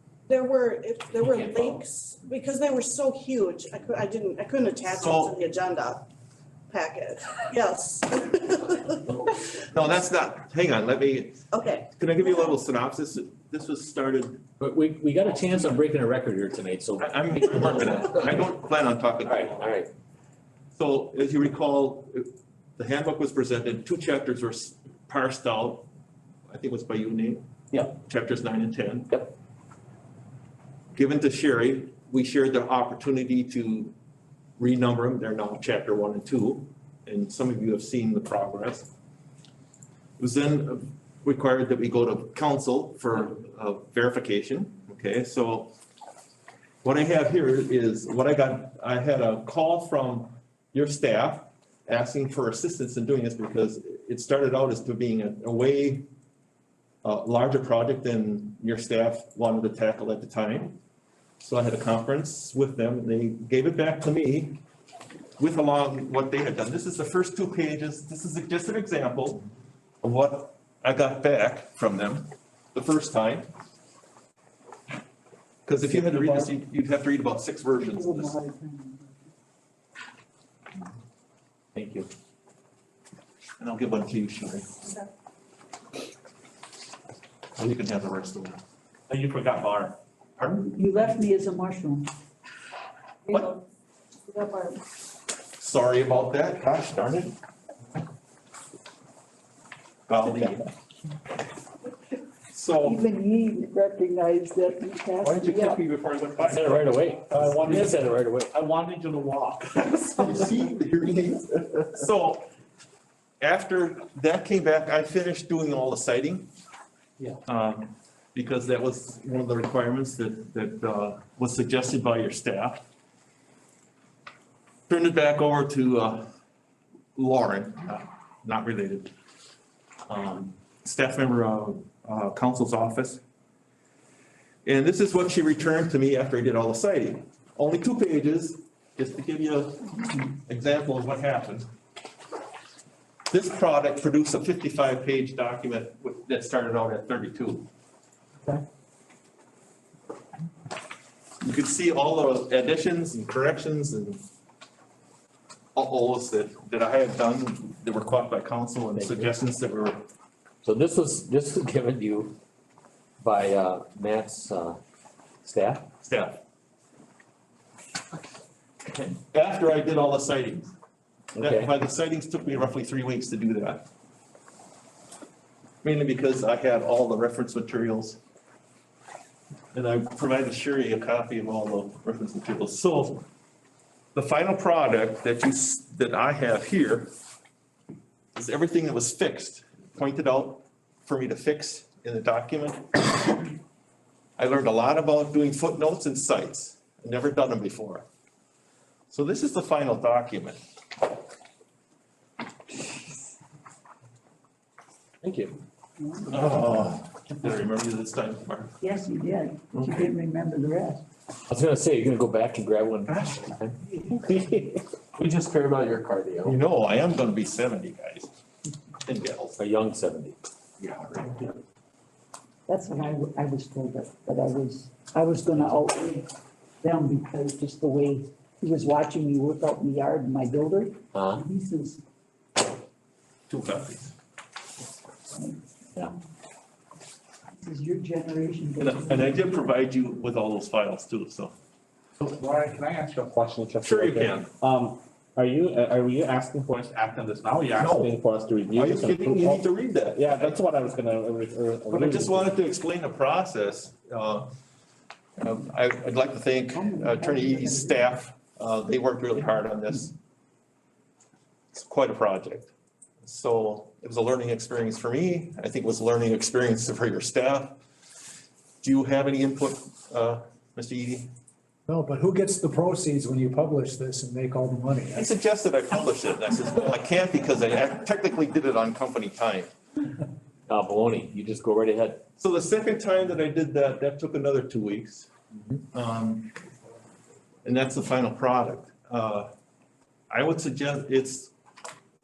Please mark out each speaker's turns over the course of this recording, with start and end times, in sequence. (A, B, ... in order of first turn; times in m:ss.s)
0:00.3-0:06.1 A
0:01.2-0:01.8 B
0:04.9-0:05.3 C
0:06.7-0:09.4 A
0:09.7-0:11.4 C
0:11.5-0:12.5 A
0:11.9-0:14.4 C
0:14.6-0:18.4 B
0:17.0-0:19.6 C
0:19.3-0:19.9 B
0:20.8-0:25.9 C
0:26.5-0:29.2 C
0:30.9-0:34.0 C
0:34.6-0:38.9 C
0:40.2-0:45.7 C
0:46.8-0:56.1 C
0:57.0-1:00.8 C
1:01.4-1:04.6 C
1:05.4-1:09.4 C
1:10.0-1:13.5 C
1:15.7-1:18.4 C
1:16.0-1:16.4 D
1:17.8-1:19.1 D
1:21.8-1:22.1 C
1:23.6-1:24.8 C
1:27.6-1:30.7 C
1:30.6-1:32.1 D
1:33.3-1:33.6 A
1:34.3-1:34.8 A
1:35.6-1:37.4 C
1:40.1-1:40.7 C
1:42.5-1:43.0 C
1:42.8-1:45.8 D
1:45.6-1:46.6 C
1:46.0-1:46.7 E
1:46.5-1:48.5 B
1:47.3-1:47.9 E
1:48.5-1:50.2 E
1:50.1-1:52.5 C
1:53.4-1:56.5 C
1:57.5-2:02.8 C
2:04.9-2:06.3 C
2:07.2-2:09.1 C
2:10.1-2:13.2 C
2:14.6-2:21.7 C
2:23.3-2:27.7 C
2:31.4-2:34.2 C
2:35.8-2:40.0 C
2:39.0-2:39.4 B
2:40.6-2:42.4 B
2:43.2-2:44.8 B
2:45.4-2:45.9 B
2:46.0-2:46.4 C
2:48.9-2:49.2 B
2:49.3-2:50.8 C
2:51.4-2:51.7 B
2:51.4-2:53.9 C
2:55.8-2:58.2 C
2:59.7-3:03.3 C
3:04.2-3:07.1 C
3:08.4-3:13.1 C
3:14.4-3:18.0 C
3:19.1-3:20.6 C
3:25.2-3:25.6 B
3:26.0-3:26.5 D
3:26.3-3:28.8 C
3:28.8-3:31.0 D
3:29.7-3:30.1 C
3:31.5-3:36.6 B
3:36.4-3:38.3 C
3:39.0-3:39.6 C
3:39.6-3:40.4 B
3:40.8-3:41.4 C
3:42.7-3:46.3 D
3:46.8-3:52.0 D
3:51.1-3:51.4 B
3:53.5-3:54.1 C
3:55.3-3:55.6 D
3:57.6-3:59.5 D
3:58.8-4:01.5 C
4:02.2-4:09.6 E
4:03.8-4:04.5 C
4:07.8-4:08.1 C
4:08.7-4:10.6 C
4:10.1-4:12.4 E
4:11.9-4:14.5 C
4:15.4-4:20.2 C
4:16.7-4:18.1 D
4:21.7-4:22.7 C
4:23.2-4:27.8 C
4:28.8-4:31.3 C
4:31.9-4:35.3 F
4:35.1-4:39.7 C
4:40.7-4:42.2 B
4:42.4-4:45.3 C
4:45.9-4:46.5 C
4:47.6-4:49.5 C
4:50.3-4:51.5 C